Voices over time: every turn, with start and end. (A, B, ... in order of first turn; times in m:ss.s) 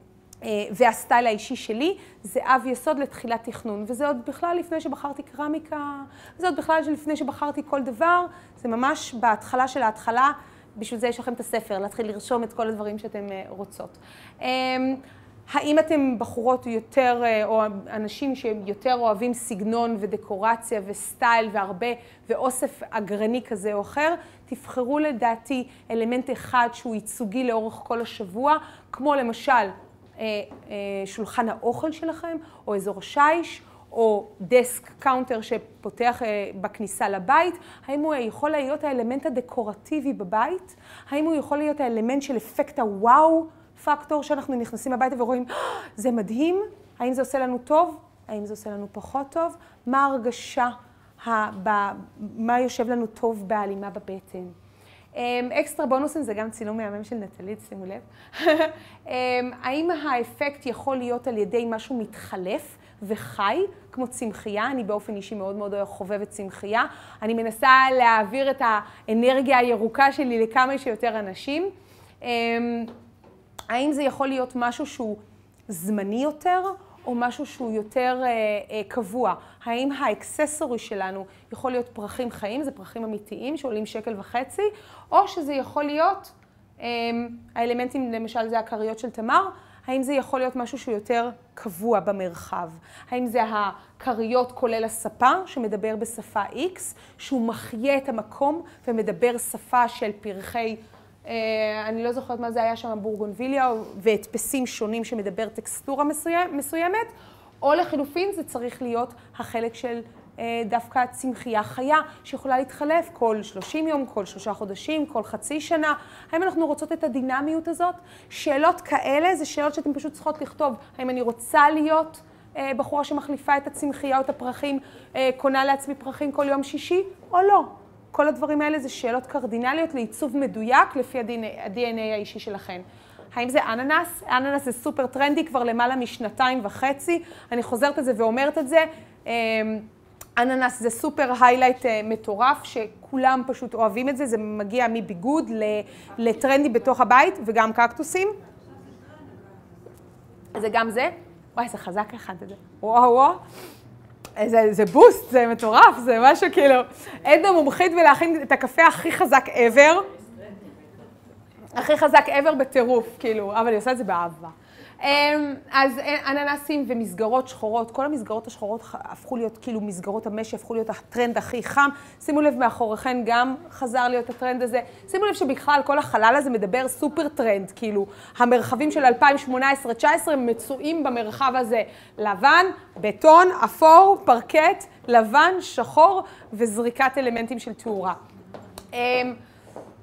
0:00.4-0:54.6 A
0:55.1-1:12.9 A
1:13.7-2:28.4 A
2:30.5-2:33.4 A
2:34.4-2:40.1 A
2:41.8-3:08.2 A
3:08.9-3:09.4 A